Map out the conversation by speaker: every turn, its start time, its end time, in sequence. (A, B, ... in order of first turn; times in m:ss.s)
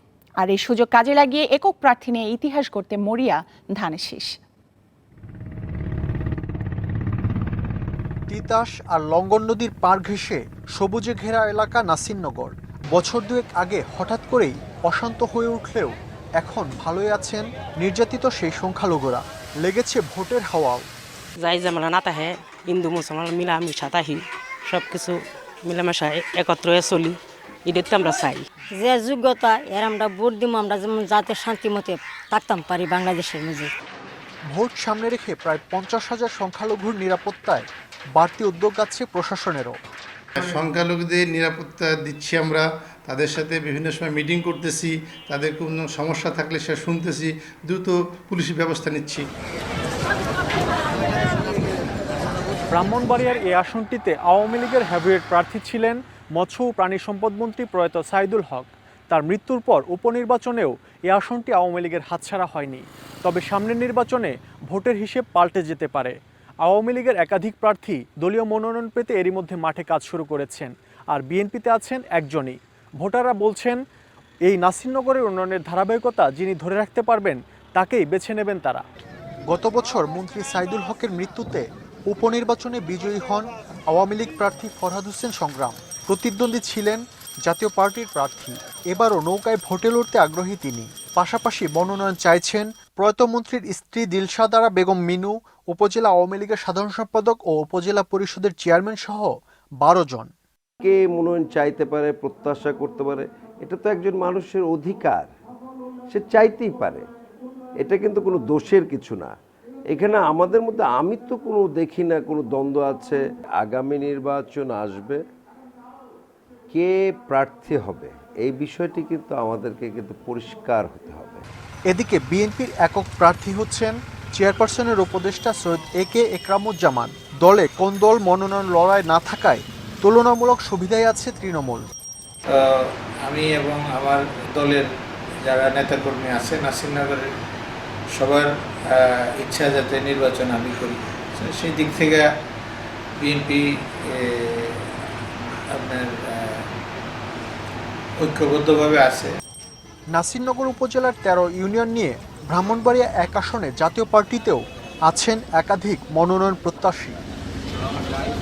0:00.4-0:04.3 A
0:08.3-0:20.8 B
0:21.4-0:28.5 C
0:28.7-0:33.7 D
0:34.5-0:37.6 B
0:38.2-0:39.8 B
0:40.4-0:49.2 E
0:52.7-1:13.8 F
1:14.5-1:18.8 F
1:19.5-1:39.3 B
1:39.8-1:40.3 B
1:40.8-1:45.3 G
1:46.1-1:47.0 G
1:47.8-1:49.3 G
1:49.9-1:55.2 G
1:56.7-2:01.4 G
2:01.9-2:11.8 B
2:12.5-2:14.8 H
2:15.4-2:17.2 H
2:18.2-2:22.2 H
2:23.2-2:24.8 H
2:25.8-2:26.6 H
2:28.2-2:29.3 H
2:30.1-2:37.2 B